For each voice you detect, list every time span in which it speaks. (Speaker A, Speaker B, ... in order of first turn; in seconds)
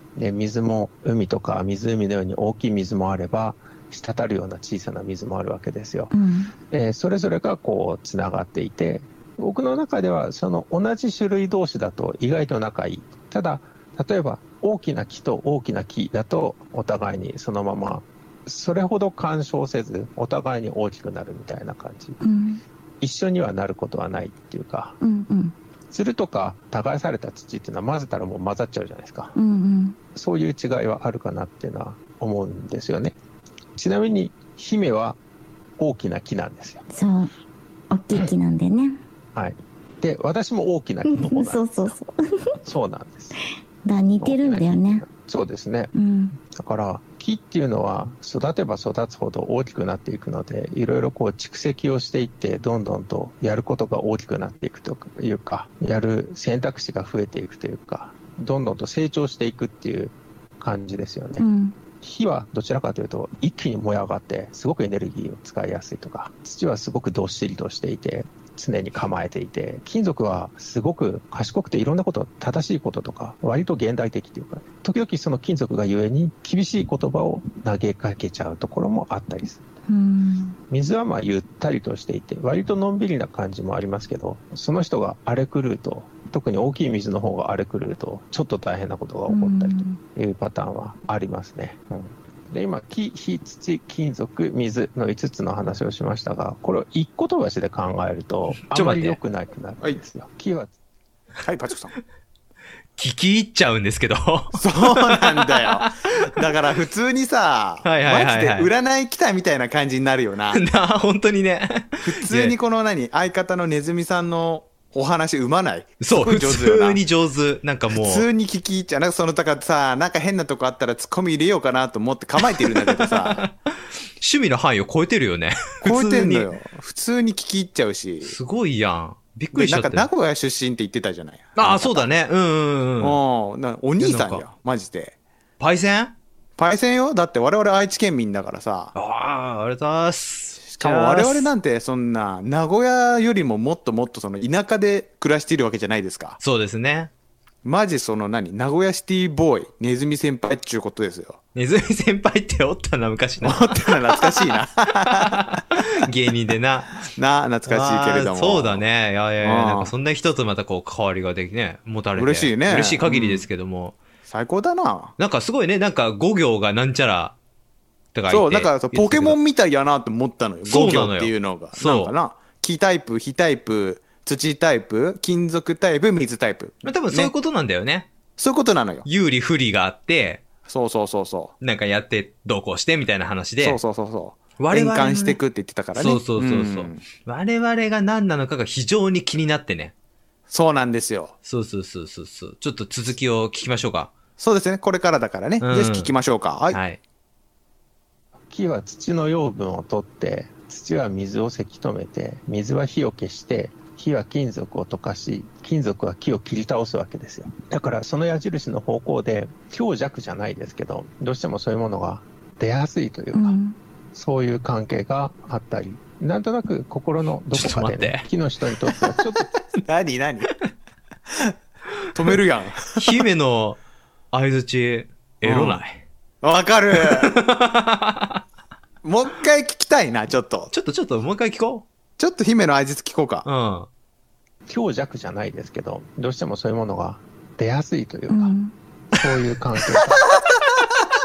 Speaker A: 0.1-6.1, 6.7-22.2, 23.0-25.0, 25.9-29.3, 30.1-33.1, 33.7-35.2, 35.8-36.8, 39.3-41.6, 42.6-43.4, 44.2-45.9, 46.4-61.4, 62.0-79.6, 80.7-100.7, 198.5-213.6, 214.1-219.5, 234.7-238.5, 239.1-240.2
Speaker B: 6.1-6.5, 22.2-22.6, 25.0-25.5, 29.3-30.0, 36.9-37.3, 37.9-39.0, 41.0-42.6, 43.8-45.0, 45.9-46.4, 61.4-61.8, 79.9-80.6, 89.3-90.0, 213.3-213.8, 238.3-238.7
Speaker C: 98.6-99.2, 103.0-106.4, 107.8-108.7, 110.5-112.5, 116.0-118.2, 122.4-123.5, 124.2-126.5, 128.2-130.1, 131.6-133.2, 134.0-134.4, 135.6-136.1, 138.9-141.5, 146.4-147.1, 151.5-157.0, 157.7-163.9, 165.2-167.3, 168.1-169.4, 170.7-172.1, 176.8-178.1, 179.1-180.4, 181.6-183.8, 184.6-185.4, 185.9-189.9, 191.4-194.1, 195.6-196.1, 196.7-197.0, 217.5-218.2, 222.9-223.8, 224.3-226.0, 226.9-228.4, 230.7-231.8, 233.4-233.9
Speaker D: 101.4-102.0, 104.6-110.6, 112.0-117.0, 117.9-123.4, 125.8-128.3, 129.5-132.1, 133.0-135.1, 136.6-138.9, 140.7-146.4, 147.6-151.4, 153.4-155.6, 157.1-158.8, 159.4-159.9, 162.2-163.4, 164.3-165.1, 168.3-177.3, 178.4-179.1, 180.7-181.5, 183.6-187.0, 190.5-191.3, 194.4-196.8, 219.8-220.5, 222.1-223.2, 225.4-225.8, 226.4-227.3, 229.0-230.7, 232.2-233.5, 239.9-240.6